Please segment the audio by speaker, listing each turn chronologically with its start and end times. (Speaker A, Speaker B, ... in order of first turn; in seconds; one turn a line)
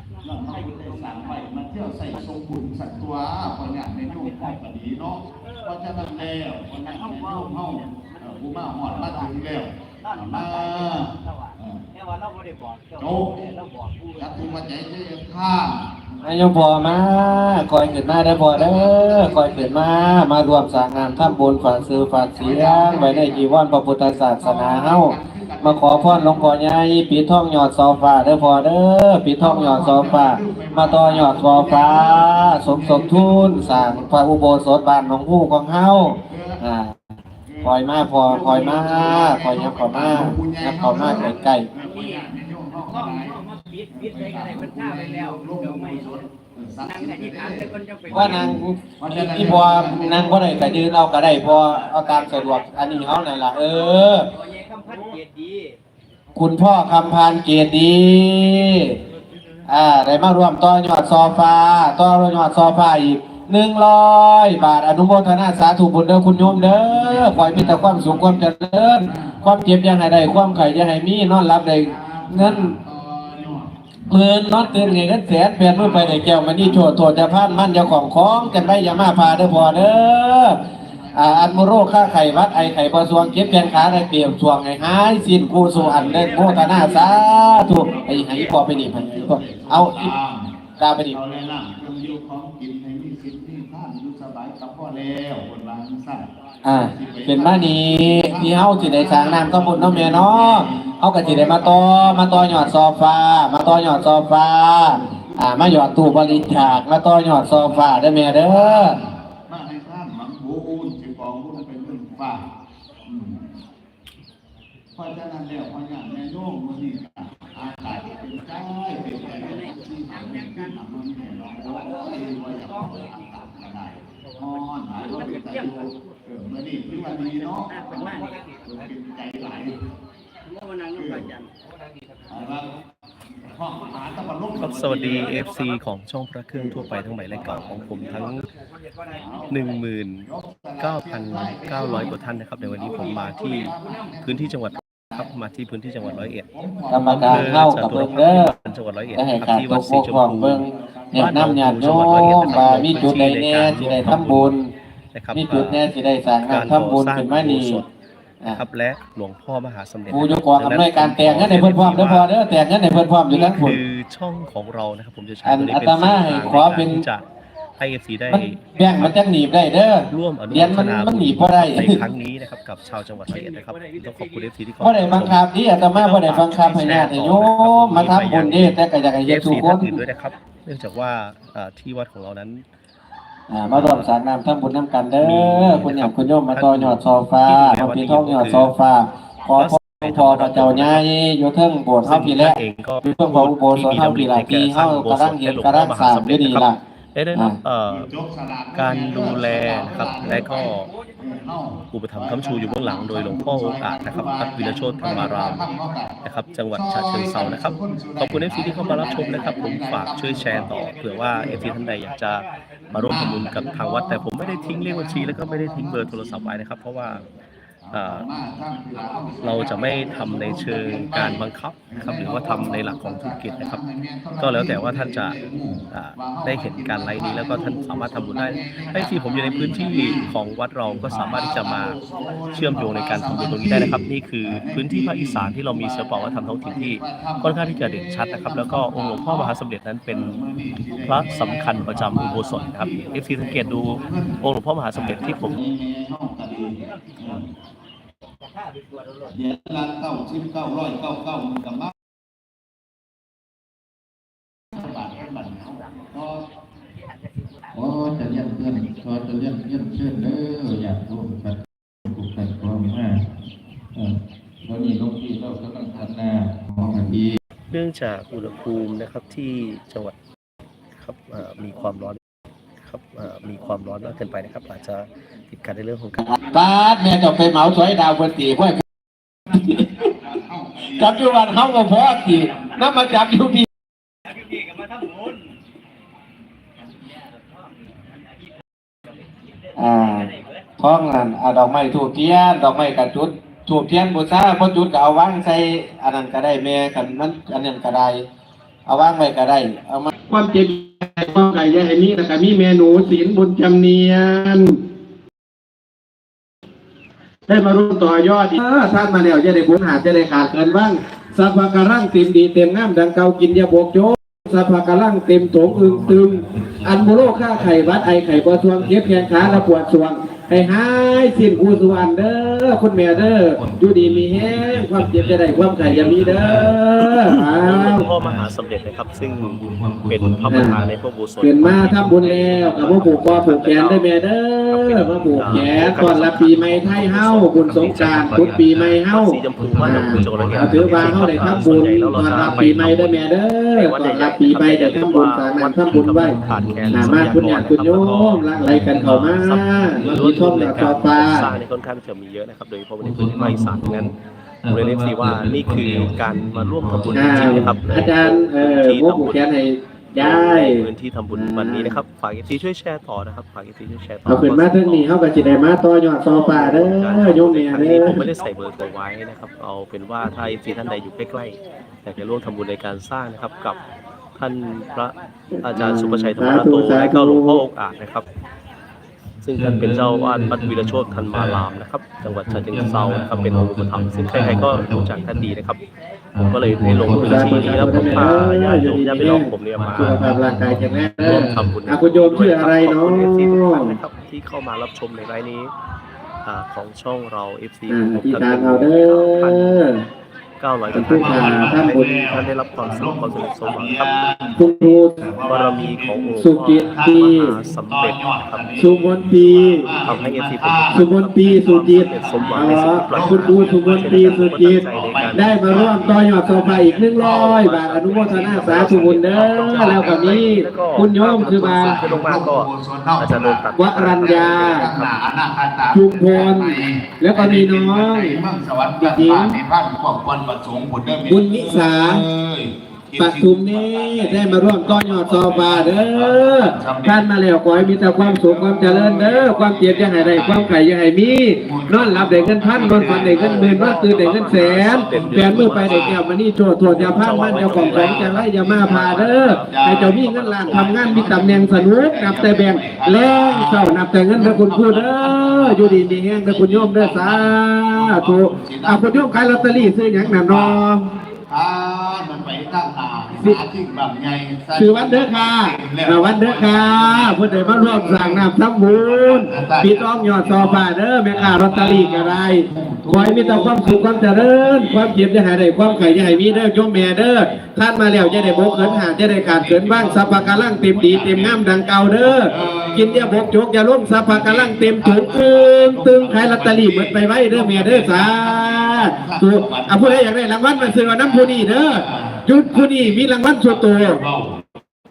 Speaker A: 0.2-11.8
Speaker B: 12.0-14.2
Speaker A: 13.0-13.4
Speaker A: 14.2-23.5
Speaker C: 16.2-36.9
Speaker A: 24.4-26.6
Speaker A: 29.4-34.1
Speaker A: 36.2-36.6
Speaker A: 37.5-52.2
Speaker C: 37.6-41.7
Speaker B: 43.1-45.7
Speaker B: 46.9-48.1
Speaker C: 48.1-54.3
Speaker B: 54.5-55.7
Speaker C: 56.4-59.0
Speaker C: 59.7-72.8
Speaker A: 66.2-69.4
Speaker A: 71.8-112.5
Speaker C: 74.1-80.6
Speaker C: 81.1-90.1
Speaker C: 90.8-91.2
Speaker C: 96.6-109.0
Speaker A: 113.0-113.4
Speaker A: 115.0-129.8
Speaker B: 127.8-128.3
Speaker B: 130.6-131.4
Speaker A: 130.9-131.3
Speaker A: 132.3-132.7
Speaker A: 133.4-135.3
Speaker D: 134.6-138.5
Speaker A: 136.5-138.2
Speaker A: 139.1-139.7
Speaker D: 139.5-140.3
Speaker A: 140.2-145.3
Speaker D: 140.8-143.7
Speaker D: 144.2-146.5
Speaker A: 146.0-148.1
Speaker C: 146.9-148.5
Speaker D: 147.0-154.5
Speaker C: 149.1-154.7
Speaker A: 150.7-153.3
Speaker D: 155.1-155.8
Speaker C: 155.3-157.8
Speaker D: 156.5-157.9
Speaker D: 158.5-162.3
Speaker C: 160.1-163.8
Speaker D: 163.3-167.2
Speaker C: 165.4-167.0
Speaker D: 167.8-169.2
Speaker C: 168.3-172.0
Speaker D: 170.1-175.4
Speaker C: 174.8-180.0
Speaker D: 176.0-182.6
Speaker C: 183.5-196.8
Speaker D: 183.7-184.1
Speaker D: 185.2-188.7
Speaker D: 189.5-191.0
Speaker D: 192.0-198.1
Speaker A: 197.9-206.2
Speaker D: 198.8-200.9
Speaker D: 201.9-205.6
Speaker D: 206.2-217.2
Speaker A: 206.7-211.8
Speaker A: 212.9-217.3
Speaker A: 217.8-230.3
Speaker D: 217.9-218.3
Speaker D: 219.4-223.8
Speaker D: 224.4-225.4
Speaker D: 225.9-232.0
Speaker A: 230.8-239.5
Speaker D: 232.5-240.4
Speaker A: 240.1-247.5
Speaker D: 241.0-245.6
Speaker A: 249.3-251.9
Speaker A: 254.7-256.5
Speaker E: 257.7-263.3
Speaker E: 264.0-267.4
Speaker D: 267.7-270.1
Speaker D: 271.0-272.2
Speaker D: 272.8-276.4
Speaker C: 276.2-278.8
Speaker A: 279.5-283.1
Speaker C: 279.5-280.0
Speaker C: 280.9-283.7
Speaker C: 289.8-298.2
Speaker C: 298.9-304.7
Speaker C: 307.5-328.1
Speaker E: 315.6-319.8
Speaker E: 320.5-328.5
Speaker D: 325.9-334.1
Speaker E: 329.1-330.9
Speaker C: 330.5-330.8
Speaker C: 331.4-351.5
Speaker E: 331.6-332.0
Speaker E: 332.8-333.1
Speaker D: 334.7-348.5
Speaker E: 335.3-336.7
Speaker E: 337.9-338.9
Speaker E: 339.6-343.0
Speaker E: 345.9-351.5
Speaker D: 349.3-354.1
Speaker E: 353.0-358.1
Speaker D: 354.7-359.4
Speaker C: 357.1-362.0
Speaker D: 360.2-365.1
Speaker C: 364.2-368.2
Speaker D: 366.2-373.8
Speaker D: 374.4-378.3
Speaker C: 375.5-377.6
Speaker D: 379.4-385.8
Speaker E: 379.4-381.7
Speaker E: 382.2-385.5
Speaker E: 386.3-388.8
Speaker D: 386.5-390.4
Speaker C: 387.1-394.0
Speaker E: 389.4-391.9
Speaker D: 391.2-395.7
Speaker D: 396.4-399.9
Speaker C: 397.9-400.0
Speaker D: 400.6-404.2
Speaker A: 400.8-404.6
Speaker C: 400.9-402.2
Speaker C: 404.6-405.3
Speaker A: 405.2-411.1
Speaker D: 405.4-408.9
Speaker C: 406.4-407.5
Speaker C: 408.8-410.0
Speaker D: 410.0-415.6
Speaker C: 410.9-422.0
Speaker A: 411.6-420.5
Speaker D: 417.1-425.2
Speaker A: 421.4-446.2
Speaker C: 423.8-424.9
Speaker C: 425.9-428.4
Speaker C: 429.0-429.6
Speaker C: 431.3-432.2
Speaker C: 433.2-461.0
Speaker D: 442.9-446.1
Speaker D: 446.8-451.1
Speaker A: 446.9-450.2
Speaker A: 450.7-460.8
Speaker A: 461.5-475.2
Speaker C: 463.3-463.6
Speaker C: 464.8-494.2
Speaker A: 475.8-476.6
Speaker A: 478.1-483.5
Speaker A: 484.1-494.7